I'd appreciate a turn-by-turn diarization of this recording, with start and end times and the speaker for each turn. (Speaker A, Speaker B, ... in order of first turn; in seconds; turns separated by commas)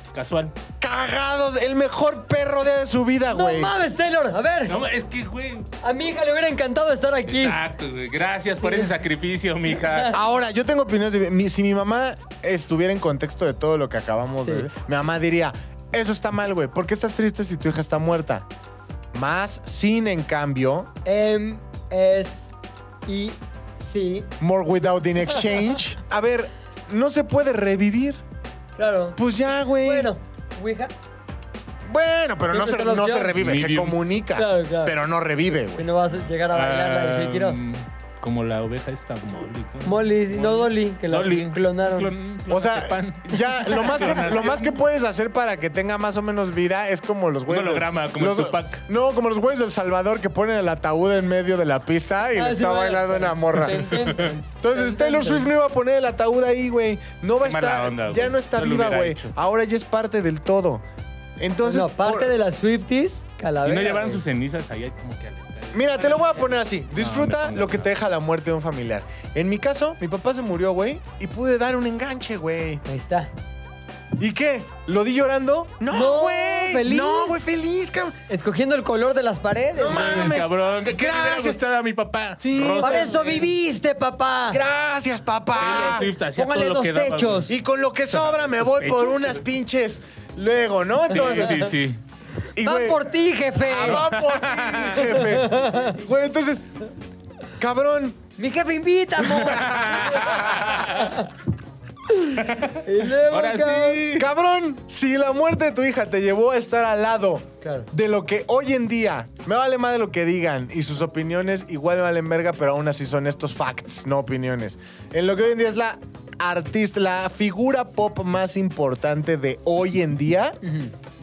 Speaker A: 0.1-0.5, Speaker B: 0.8-3.8, Speaker C: 3.3-4.8, Speaker A: 4.7-5.7, Speaker C: 5.8-7.6, Speaker A: 7.3-10.2, Speaker C: 8.6-8.9, Speaker C: 9.7-10.2, Speaker B: 10.1-18.4, Speaker C: 14.4-14.7, Speaker B: 19.1-20.9, Speaker C: 21.0-22.5, Speaker C: 23.1-24.3, Speaker B: 24.4-28.2, Speaker C: 25.4-25.7, Speaker C: 28.8-29.2, Speaker B: 29.1-30.1, Speaker C: 29.8-30.9, Speaker B: 31.9-35.9, Speaker C: 32.5-33.3, Speaker A: 33.4-34.2, Speaker C: 34.3-35.0, Speaker C: 35.7-37.6, Speaker A: 36.5-44.7, Speaker C: 39.8-42.1, Speaker B: 42.5-54.0, Speaker C: 43.5-44.5, Speaker A: 47.5-48.8, Speaker C: 52.3-55.5, Speaker A: 53.9-54.3, Speaker B: 54.6-60.8, Speaker A: 57.4-59.3, Speaker B: 61.4-62.3, Speaker C: 61.6-64.2, Speaker A: 63.6-67.9, Speaker B: 65.7-72.8, Speaker C: 72.8-73.3, Speaker B: 74.2-78.2, Speaker C: 75.9-77.4, Speaker C: 78.3-80.4, Speaker B: 79.7-81.6, Speaker A: 79.9-83.5, Speaker B: 82.4-83.2, Speaker C: 82.8-84.6, Speaker B: 84.5-86.1, Speaker A: 85.5-87.5, Speaker C: 85.6-87.5, Speaker B: 87.5-91.7, Speaker A: 88.1-89.4, Speaker C: 91.1-91.7, Speaker A: 91.1-92.0, Speaker B: 92.5-93.0, Speaker C: 92.6-94.1, Speaker B: 93.6-96.7, Speaker A: 93.8-95.2, Speaker C: 95.0-96.0, Speaker B: 97.6-98.2, Speaker C: 98.4-101.3, Speaker A: 99.3-101.2, Speaker C: 102.1-104.0, Speaker A: 102.3-104.3, Speaker B: 104.2-120.6, Speaker C: 107.6-107.9, Speaker C: 120.6-120.9